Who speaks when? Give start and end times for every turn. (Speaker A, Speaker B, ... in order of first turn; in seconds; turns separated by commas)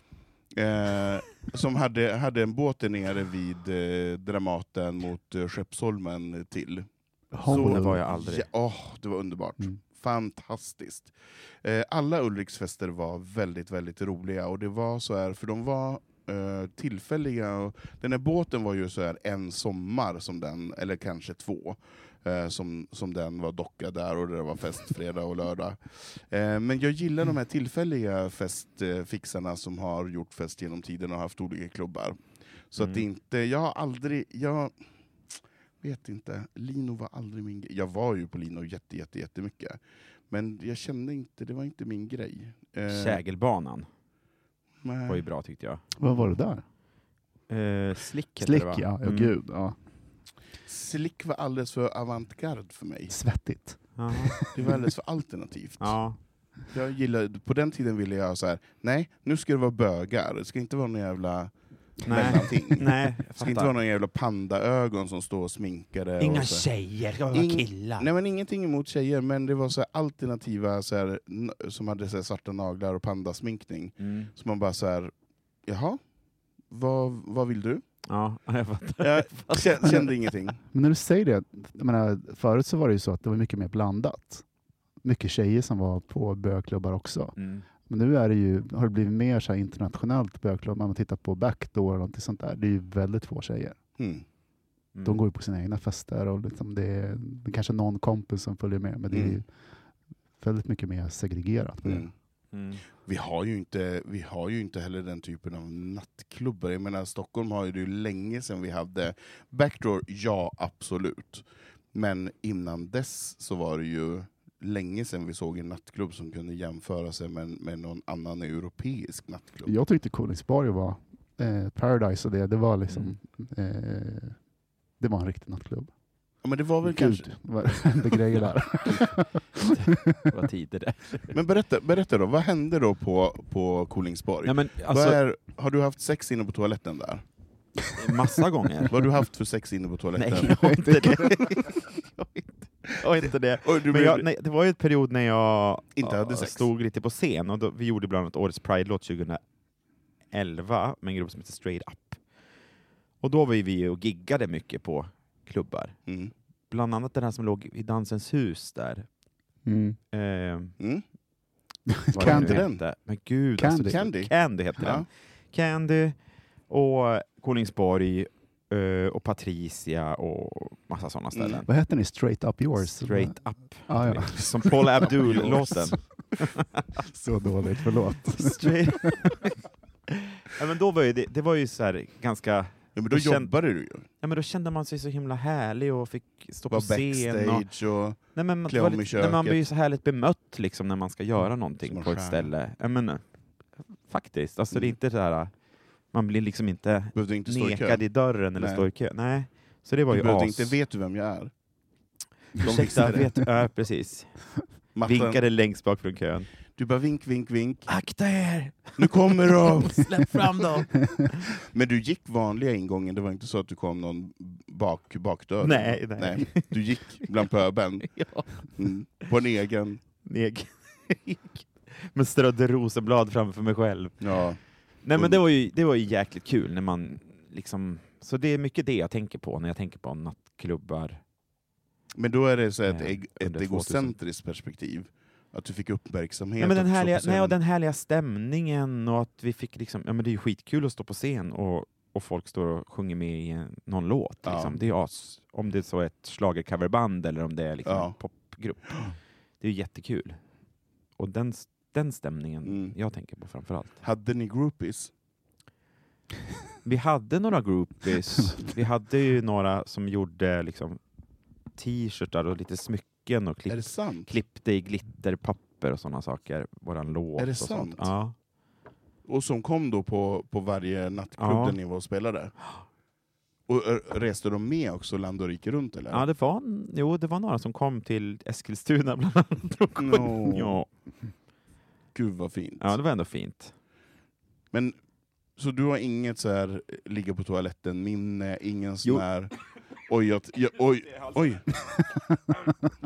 Speaker A: 0.5-6.9, Speaker B: 7.3-8.0, Speaker A: 7.4-11.1, Speaker C: 7.5-8.5, Speaker A: 11.6-32.2, Speaker A: 32.7-34.7, Speaker C: 32.8-33.1, Speaker A: 35.8-39.8, Speaker A: 40.3-43.2, Speaker C: 42.9-43.9, Speaker A: 44.8-45.3, Speaker C: 45.1-45.8, Speaker B: 46.0-46.6, Speaker C: 47.5-49.3, Speaker B: 48.4-49.8, Speaker A: 50.7-53.1, Speaker B: 53.1-54.8, Speaker C: 54.0-54.5, Speaker A: 54.5-56.0, Speaker C: 55.8-56.2, Speaker A: 56.7-66.7, Speaker C: 62.1-63.7, Speaker C: 66.2-68.1, Speaker A: 67.3-75.1, Speaker C: 74.0-74.3, Speaker A: 75.7-76.0, Speaker A: 76.7-77.8, Speaker C: 78.1-80.2, Speaker A: 79.0-80.6, Speaker B: 80.7-84.4, Speaker B: 85.0-87.4, Speaker C: 87.4-87.7, Speaker B: 87.9-93.8, Speaker A: 94.0-94.2, Speaker C: 95.0-95.2, Speaker B: 95.0-99.5, Speaker A: 99.1-99.4, Speaker B: 100.4-102.0, Speaker A: 101.8-102.1, Speaker C: 102.5-102.8, Speaker A: 103.0-119.7, Speaker B: 119.7-124.4, Speaker C: 122.9-123.2, Speaker B: 125.0-125.9, Speaker A: 126.4-127.3, Speaker B: 126.8-130.2, Speaker C: 128.4-131.3, Speaker A: 131.3-137.2, Speaker C: 134.4-135.2, Speaker C: 138.0-139.1, Speaker A: 138.9-140.8, Speaker C: 140.2-149.4, Speaker B: 140.6-141.4, Speaker A: 143.7-144.2, Speaker A: 146.0-146.7, Speaker C: 150.3-152.2, Speaker C: 153.2-156.0, Speaker C: 156.7-159.1, Speaker B: 159.7-160.0, Speaker C: 160.1-160.7, Speaker B: 161.9-162.7, Speaker A: 162.1-162.8, Speaker C: 162.1-166.2, Speaker B: 163.6-164.0, Speaker A: 163.9-165.1, Speaker C: 166.7-171.7, Speaker A: 171.3-171.6, Speaker B: 171.7-175.0, Speaker C: 172.8-177.0, Speaker A: 175.1-175.9, Speaker B: 177.1-179.2, Speaker C: 178.3-179.6, Speaker C: 180.1-183.5, Speaker A: 183.0-184.1, Speaker C: 184.2-187.7, Speaker A: 186.7-189.6, Speaker C: 188.3-193.2, Speaker A: 191.9-192.5, Speaker C: 194.1-195.5, Speaker C: 196.1-200.8, Speaker A: 197.2-198.0, Speaker A: 198.6-198.9, Speaker A: 200.1-201.5, Speaker C: 202.6-204.3, Speaker A: 202.6-203.3, Speaker A: 204.9-205.4, Speaker C: 205.0-206.5, Speaker A: 206.8-207.9, Speaker C: 207.9-211.3, Speaker A: 209.0-210.1, Speaker A: 211.6-218.1, Speaker C: 215.6-217.3, Speaker C: 218.1-218.7, Speaker A: 218.8-220.0, Speaker C: 220.2-224.4, Speaker A: 224.2-224.6, Speaker C: 225.0-231.2, Speaker A: 232.2-237.6, Speaker C: 232.9-234.2, Speaker C: 236.6-249.1, Speaker A: 244.4-244.8, Speaker A: 247.8-248.1, Speaker C: 249.6-250.4, Speaker C: 251.2-254.0, Speaker A: 252.7-252.9, Speaker A: 254.0-255.1, Speaker C: 256.8-261.0, Speaker C: 261.8-268.4, Speaker A: 263.7-264.3, Speaker A: 267.4-268.1, Speaker A: 269.3-272.5, Speaker C: 271.4-271.8, Speaker A: 273.7-276.2, Speaker C: 276.1-280.9, Speaker A: 280.0-280.8, Speaker A: 282.1-282.9, Speaker C: 282.8-283.7, Speaker A: 284.7-285.0, Speaker A: 285.6-289.5, Speaker A: 290.1-291.7